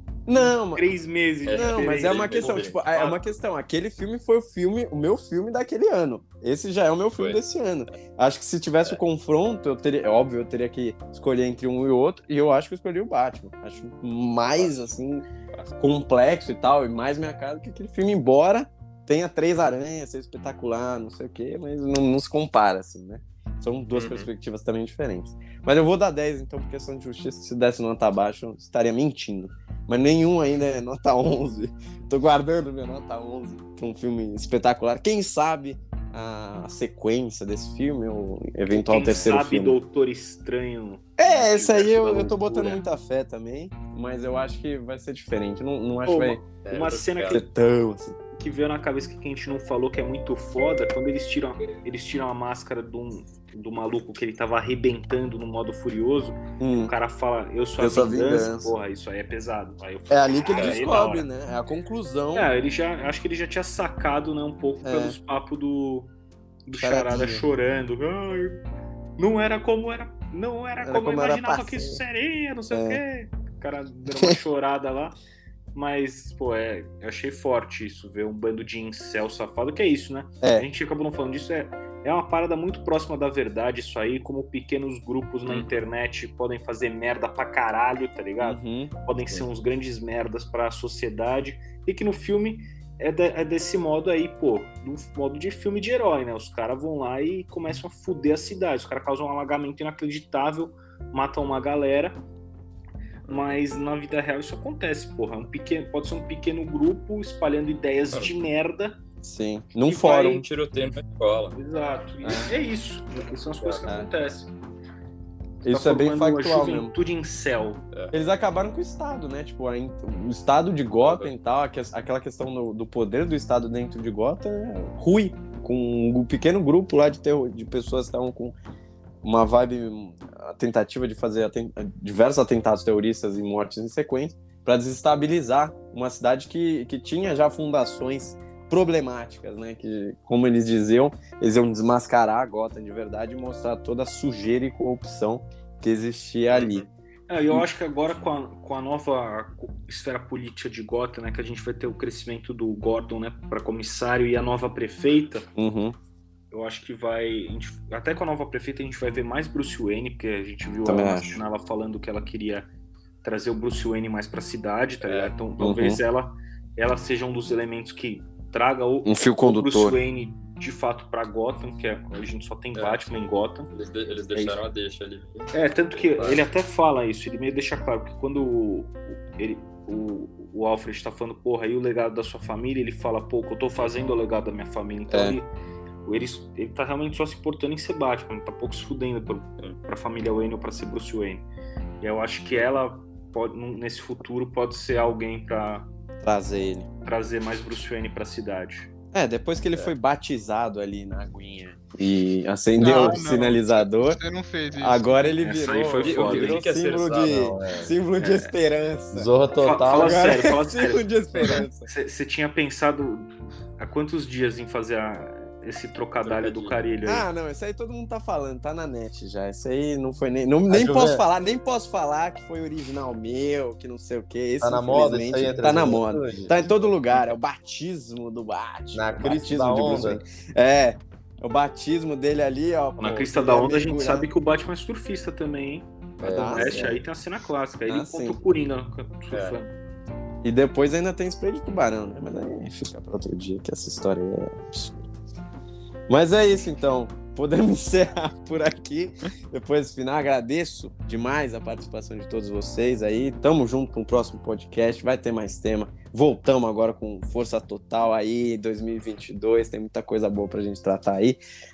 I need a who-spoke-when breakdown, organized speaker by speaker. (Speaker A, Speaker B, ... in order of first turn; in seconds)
Speaker A: 0.3-0.8, 1.5-15.2, 15.8-39.8, 41.2-46.5, 47.3-48.2, 56.6-56.9, 57.8-58.7, 60.1-62.5, 64.8-65.2, 66.8-67.5, 70.8-72.0, 72.7-73.0, 80.4-80.7, 88.4-89.0, 109.2-110.4, 112.2-112.5, 115.6-116.9, 118.1-128.6, 129.2-146.8, 155.6-156.0, 160.8-161.4, 165.6-166.0, 169.0-170.0, 185.1-185.4, 196.2-196.9, 199.1-204.2, 204.8-209.3, 209.9-211.9, 217.0-234.3, 236.2-237.0, 237.9-238.4, 240.4-245.1, 246.1-261.4
Speaker B: 0.4-3.2, 38.7-42.8, 46.1-47.4, 48.4-61.3, 62.3-66.1, 66.7-68.6, 69.2-75.2, 75.7-102.2, 103.3-109.0, 111.6-114.5, 115.7-117.8, 147.3-155.5, 156.5-162.7, 163.2-173.7, 175.5-185.5, 186.1-191.4, 192.0-195.9, 197.0-198.9, 202.9-203.2, 205.4-206.6, 209.6-217.3, 233.0-239.7
Speaker C: 1.4-2.8, 14.5-14.9, 23.9-24.3, 46.6-47.4, 60.6-61.0, 103.3-103.6, 109.9-111.6, 113.5-113.9, 121.0-121.3, 146.5-146.9, 165.0-165.3, 172.7-173.1, 173.7-176.4, 206.0-207.6, 216.2-216.9, 226.7-227.3, 236.2-236.9, 239.3-239.6
Speaker D: 202.8-205.3
Speaker E: 207.3-207.9, 209.1-210.2, 220.7-221.2, 224.6-226.6, 228.9-230.2